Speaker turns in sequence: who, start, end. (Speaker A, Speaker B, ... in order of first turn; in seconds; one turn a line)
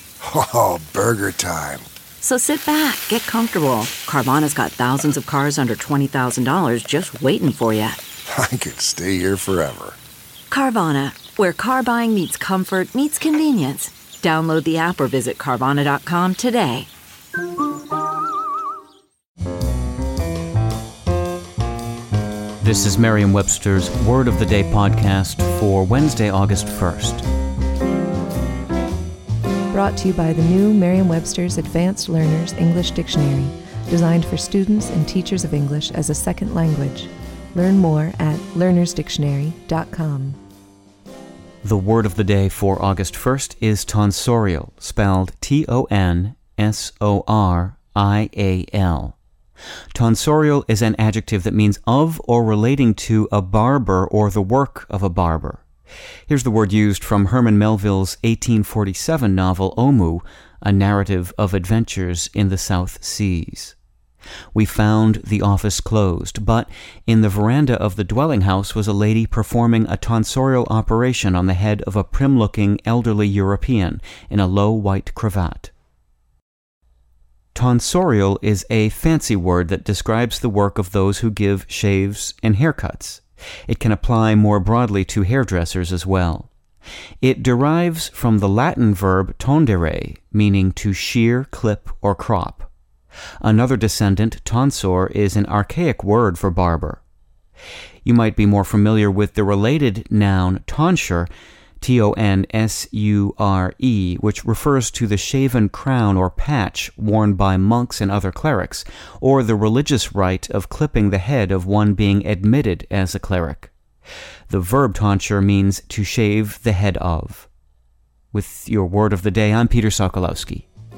Speaker A: 0.2-1.9
Speaker B: 2.2-8.0
Speaker A: 8.3-10.0
Speaker B: 10.5-16.9
Speaker C: 22.6-27.2
Speaker D: 29.7-40.4
Speaker C: 41.6-49.2
Speaker C: 49.9-55.6
Speaker C: 56.3-63.8
Speaker C: 64.5-75.7
Speaker C: 77.5-86.5
Speaker C: 87.2-92.7
Speaker C: 93.4-97.0
Speaker C: 98.0-101.3
Speaker C: 101.8-113.7
Speaker C: 114.5-117.5
Speaker C: 118.3-120.7